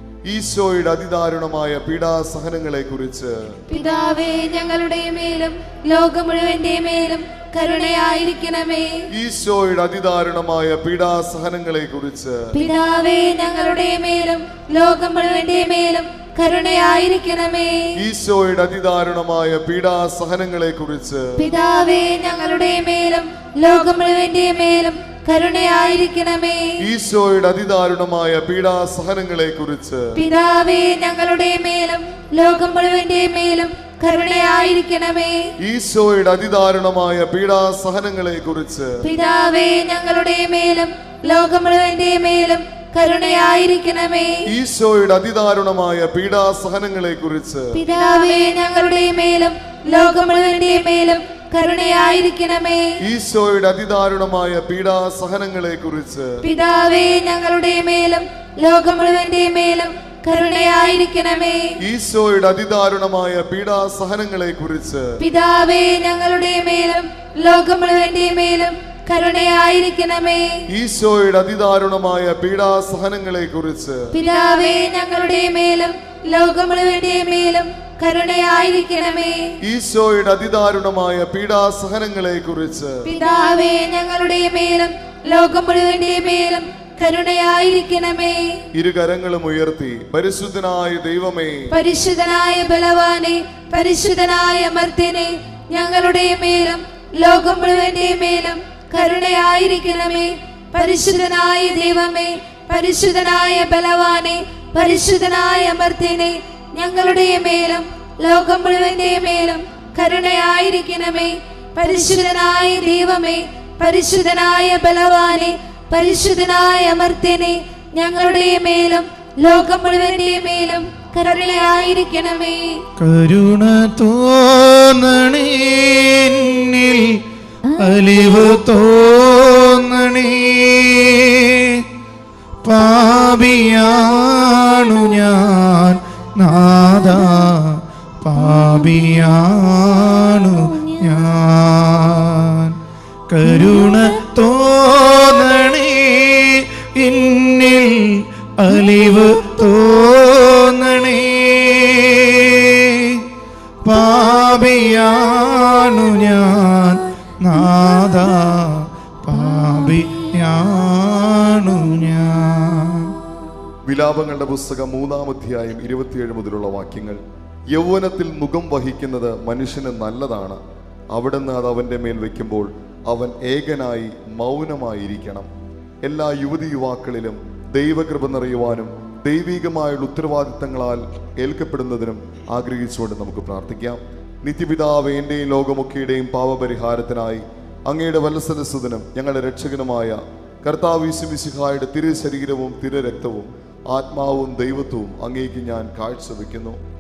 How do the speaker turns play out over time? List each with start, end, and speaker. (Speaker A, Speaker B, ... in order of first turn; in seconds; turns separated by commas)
Speaker A: 0.3-3.5, Speaker B: 3.7-9.0, Speaker A: 9.1-12.5, Speaker B: 12.5-17.9, Speaker A: 18.0-21.4, Speaker B: 21.4-26.8, Speaker A: 26.9-30.2, Speaker B: 30.1-35.5, Speaker A: 35.6-39.0, Speaker B: 39.0-44.4, Speaker A: 44.5-47.8, Speaker B: 47.7-52.9, Speaker A: 53.0-56.4, Speaker B: 56.4-61.7, Speaker A: 61.8-65.1, Speaker B: 65.2-70.6, Speaker A: 70.7-74.1, Speaker B: 74.1-79.5, Speaker A: 79.6-83.1, Speaker B: 83.0-88.6, Speaker A: 88.7-91.7, Speaker B: 91.7-122.8, Speaker C: 123.0-131.8, Speaker C: 132.6-142.8, Speaker C: 143.3-153.2, Speaker C: 153.8-163.2, Speaker A: 163.8-170.6, Speaker A: 171.1-175.5, Speaker A: 176.0-196.8